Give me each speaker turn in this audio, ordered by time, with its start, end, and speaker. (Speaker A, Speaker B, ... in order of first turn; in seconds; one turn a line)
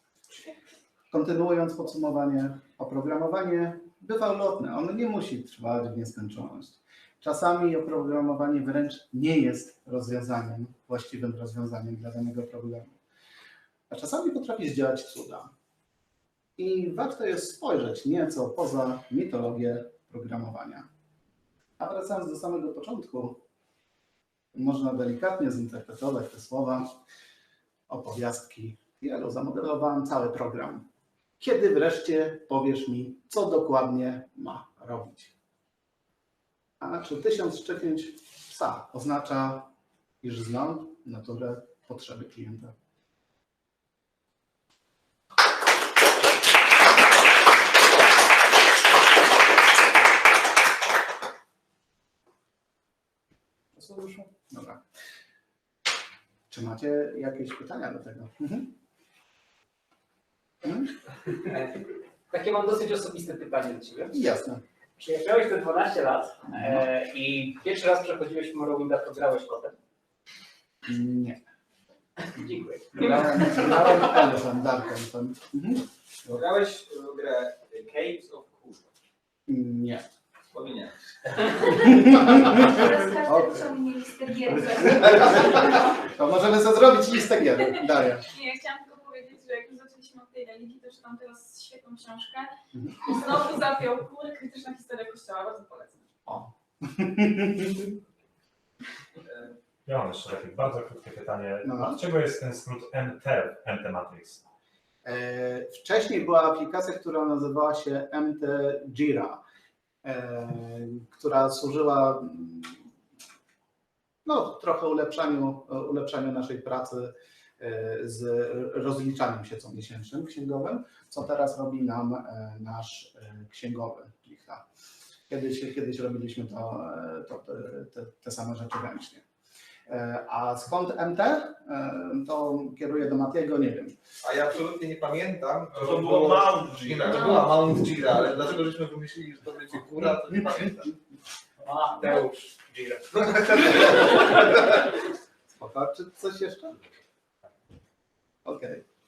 Speaker A: 1.1-13.0
Speaker A: 13.9-15.5
Speaker A: 16.6-20.9
Speaker A: 21.8-23.4
Speaker A: 24.5-26.9
Speaker A: 27.9-30.9
Speaker A: 31.4-35.3
Speaker A: 36.8-42.7
Speaker A: 53.8-54.8
Speaker A: 56.5-58.8
Speaker B: 61.3-61.8
Speaker B: 62.3-64.1
Speaker A: 64.1-64.6
Speaker B: 65.0-69.8
Speaker A: 66.6-66.8
Speaker A: 70.9-71.4
Speaker B: 72.3-73.5
Speaker A: 72.9-76.4
Speaker C: 76.3-78.9
Speaker A: 79.5-80.1
Speaker C: 80.5-81.3
Speaker A: 81.7-83.8
Speaker D: 82.5-85.7
Speaker A: 84.5-88.3
Speaker D: 88.3-96.0
Speaker A: 96.3-97.9
Speaker E: 99.9-104.4
Speaker A: 101.6-102.0
Speaker A: 105.0-109.4
Speaker A: 110.0-112.8
Speaker A: 114.2-124.7
Speaker A: 125.3-129.2
Speaker A: 129.9-134.0
Speaker F: 134.2-141.0
Speaker E: 135.8-137.1
Speaker B: 141.6-144.2
Speaker A: 145.5-146.8
Speaker A: 148.4-148.8